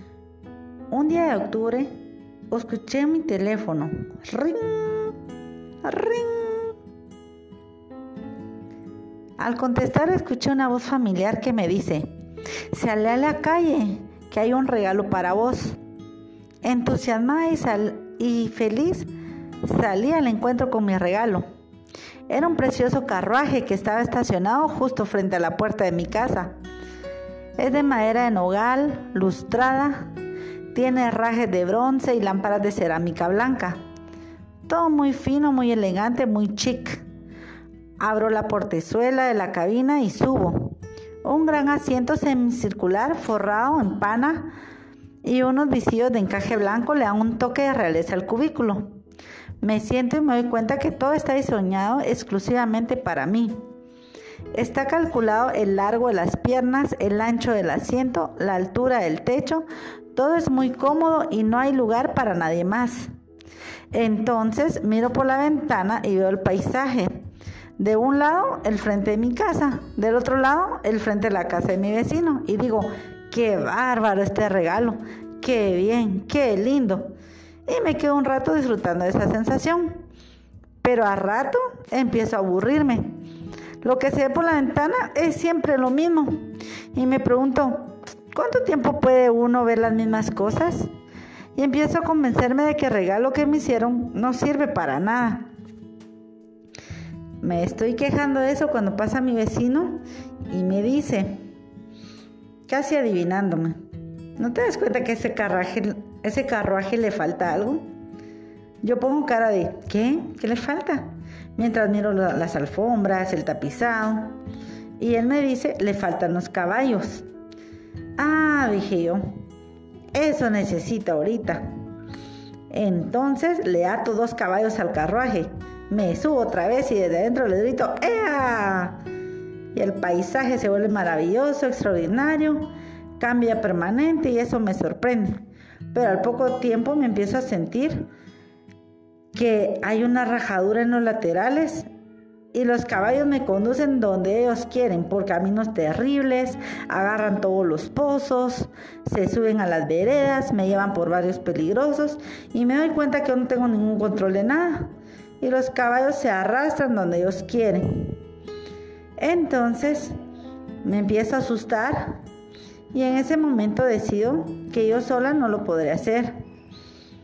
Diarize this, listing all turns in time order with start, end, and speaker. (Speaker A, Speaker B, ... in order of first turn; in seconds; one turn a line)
Speaker A: 0.9-1.9
Speaker A: 2.5-5.2
Speaker A: 5.8-6.7
Speaker A: 9.4-12.1
Speaker A: 12.7-15.8
Speaker A: 16.6-19.1
Speaker A: 19.6-21.4
Speaker A: 22.3-26.6
Speaker A: 27.6-30.1
Speaker A: 30.7-33.8
Speaker A: 34.7-37.0
Speaker A: 38.0-44.5
Speaker A: 45.2-48.9
Speaker A: 49.6-53.6
Speaker A: 54.5-63.1
Speaker A: 63.9-67.2
Speaker A: 67.8-77.1
Speaker A: 77.7-80.0
Speaker A: 80.8-83.1
Speaker A: 83.8-86.4
Speaker A: 86.9-90.9
Speaker A: 91.5-95.5
Speaker A: 97.4-101.4
Speaker A: 102.7-103.8
Speaker A: 104.4-107.8
Speaker A: 108.8-114.3
Speaker A: 115.0-117.2
Speaker A: 118.2-119.3
Speaker A: 120.1-121.7
Speaker A: 122.7-129.0
Speaker A: 129.7-138.1
Speaker A: 139.3-141.9
Speaker A: 142.5-158.1
Speaker A: 159.2-160.2
Speaker A: 160.8-162.2
Speaker A: 162.9-166.4